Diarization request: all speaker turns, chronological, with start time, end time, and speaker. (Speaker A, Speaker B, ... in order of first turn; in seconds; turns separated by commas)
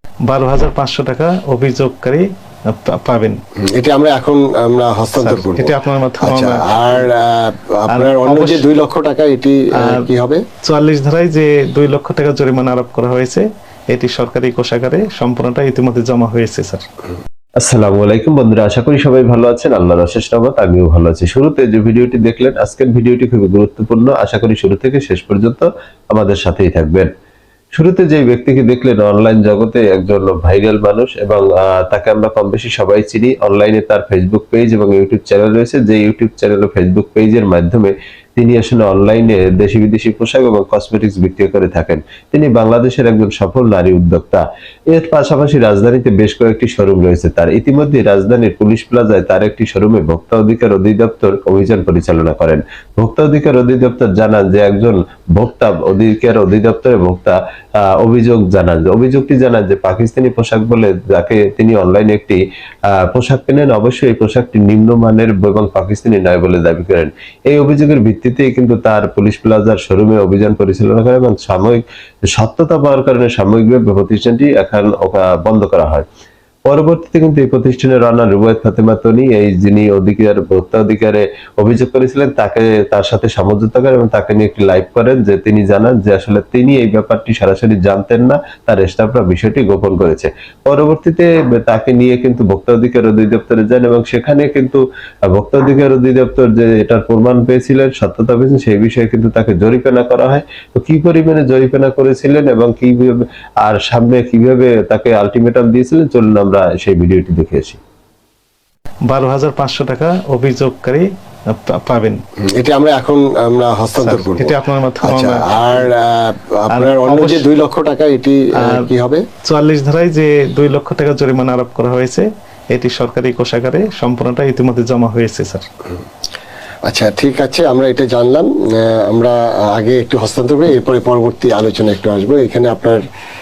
Speaker A: 0.3-2.2, Speaker A: 2.9-3.4, Speaker B: 3.6-10.4, Speaker A: 5.2-6.6, Speaker A: 10.7-16.8, Speaker C: 17.6-27.1, Speaker C: 27.7-62.4, Speaker C: 63.0-76.0, Speaker C: 76.7-107.8, Speaker A: 109.1-111.0, Speaker A: 111.8-112.2, Speaker B: 112.5-119.2, Speaker A: 114.5-115.3, Speaker A: 119.5-125.6, Speaker B: 126.8-133.0